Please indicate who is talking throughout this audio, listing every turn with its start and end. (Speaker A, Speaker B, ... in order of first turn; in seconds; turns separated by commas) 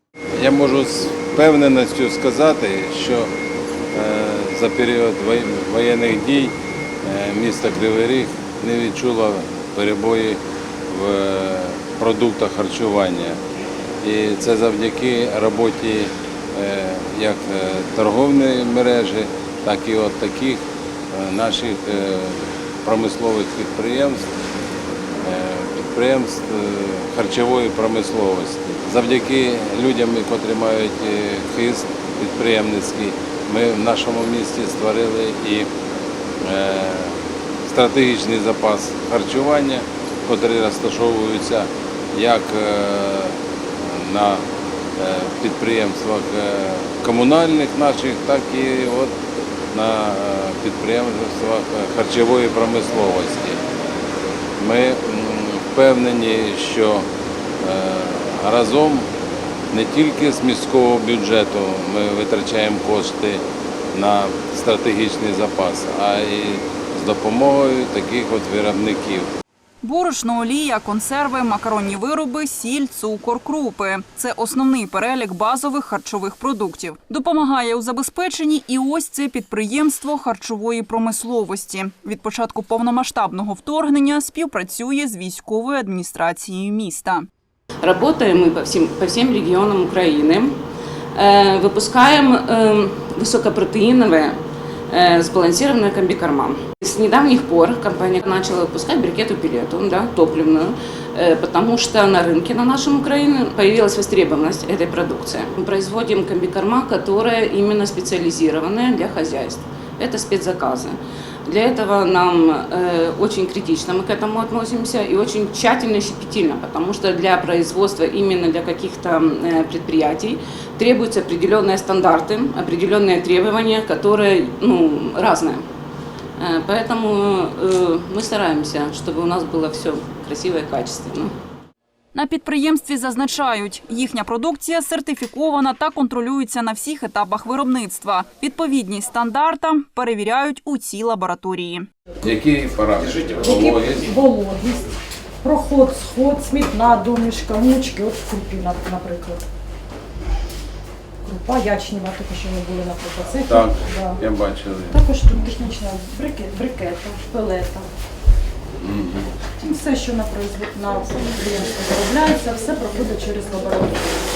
Speaker A: 0.3-3.3, Speaker A: 3.9-13.4, Speaker A: 14.0-24.3, Speaker A: 25.2-35.7, Speaker A: 36.4-44.5, Speaker A: 45.0-49.1, Speaker A: 49.7-53.6, Speaker A: 54.6-57.1, Speaker A: 57.6-59.1, Speaker A: 59.7-69.3, Speaker B: 69.8-87.3, Speaker C: 87.8-90.5, Speaker C: 91.2-94.4, Speaker C: 94.9-125.6, Speaker C: 126.4-131.3, Speaker B: 132.1-141.9, Speaker A: 142.2-144.1, Speaker D: 143.4-149.5, Speaker D: 151.2-154.2, Speaker A: 153.5-155.0, Speaker D: 154.9-157.9, Speaker A: 158.8-159.3, Speaker D: 159.6-164.1